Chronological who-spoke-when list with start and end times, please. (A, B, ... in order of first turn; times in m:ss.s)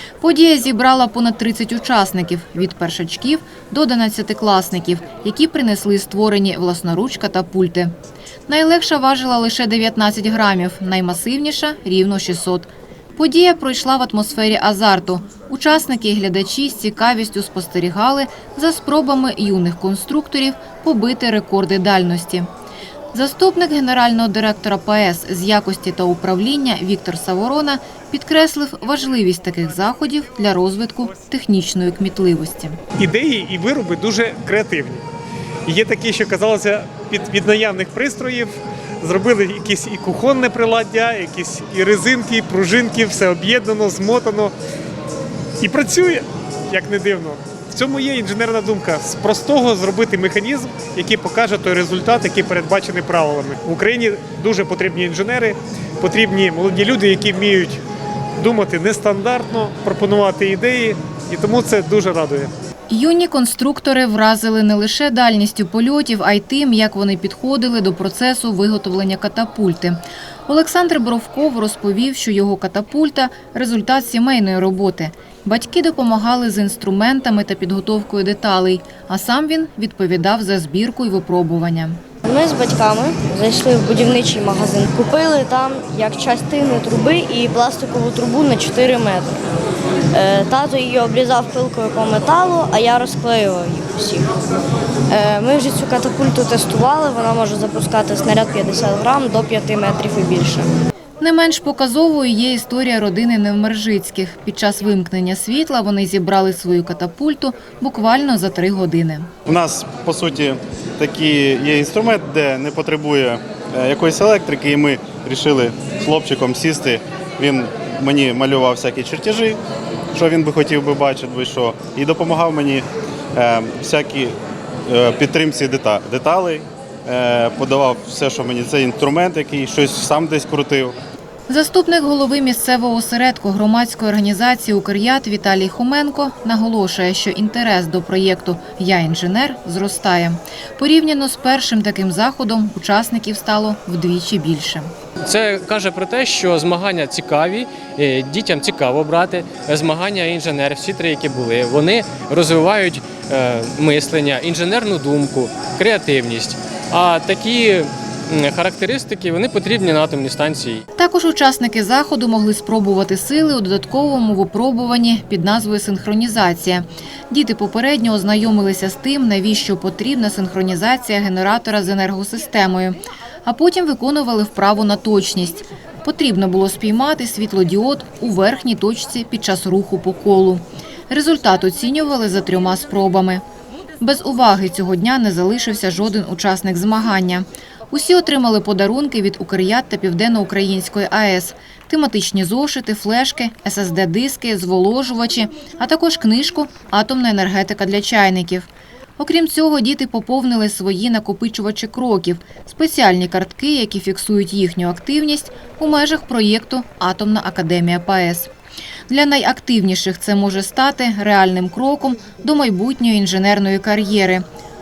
0:00.2-0:07.9 A
0:08.5-0:22.5 A
0:23.1-0:32.8 A
0:33.0-0:35.0 B
0:35.7-0:44.5 B
0:45.6-0:57.8 B
0:58.4-1:02.5 B
1:02.9-1:22.0 A
1:22.2-1:29.3 C
1:30.1-1:34.3 C
1:35.1-1:40.7 C
1:41.2-1:49.3 A
1:49.5-1:59.6 D
2:00.1-2:04.3 D
2:04.9-2:11.0 D
2:11.5-2:24.9 A
2:25.2-2:40.8 E
2:41.0-3:03.4 A
3:04.0-3:28.5 A
3:29.1-3:34.4 A